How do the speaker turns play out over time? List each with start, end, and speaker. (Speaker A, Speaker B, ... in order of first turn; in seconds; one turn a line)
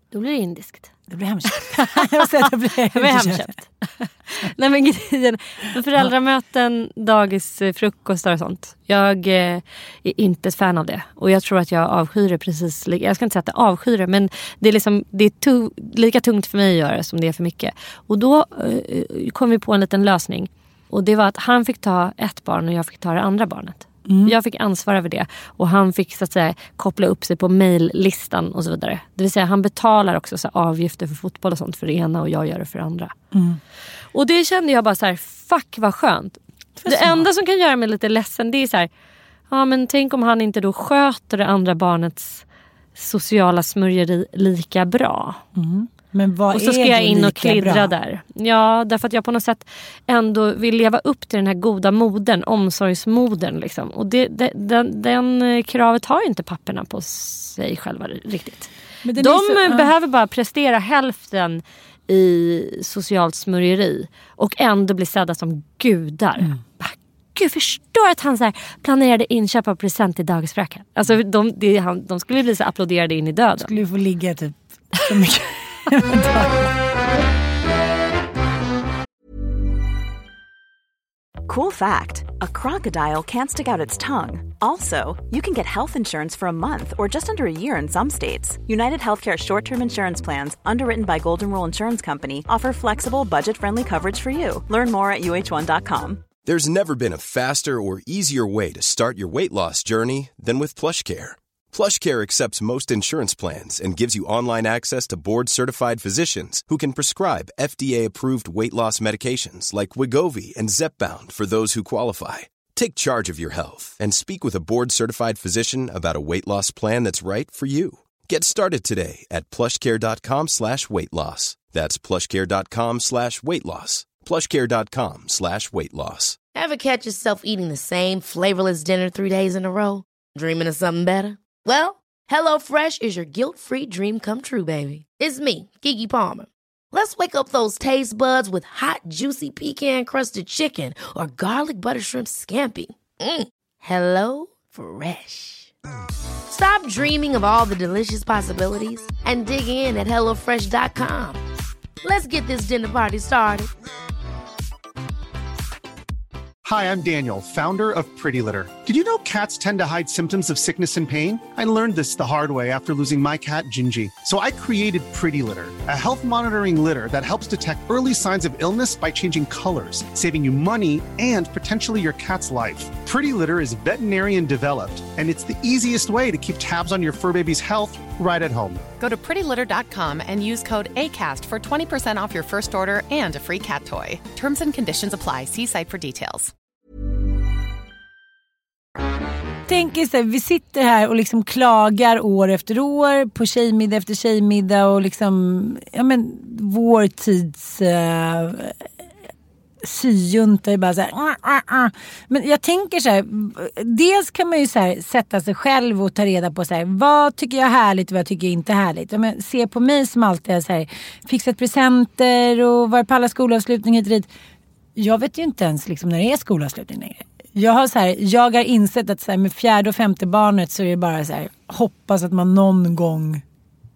Speaker A: 0.1-0.9
Speaker B: 1.1-3.5
Speaker A: 1.5-33.1
Speaker B: 24.1-24.3
Speaker B: 33.3-33.6
Speaker A: 34.1-38.9
Speaker B: 36.8-37.3
Speaker A: 39.5-42.4
Speaker A: 42.9-45.4
Speaker B: 45.5-47.9
Speaker A: 46.5-73.7
Speaker B: 59.0-59.9
Speaker B: 73.5-76.7
Speaker C: 81.5-96.3
Speaker D: 96.4-126.4
Speaker E: 126.5-145.7
Speaker E: 146.5-151.4
Speaker E: 152.0-153.7
Speaker F: 156.6-178.8
Speaker G: 179.0-186.5
Speaker B: 189.7-198.8
Speaker B: 199.8-214.3
Speaker B: 214.9-223.4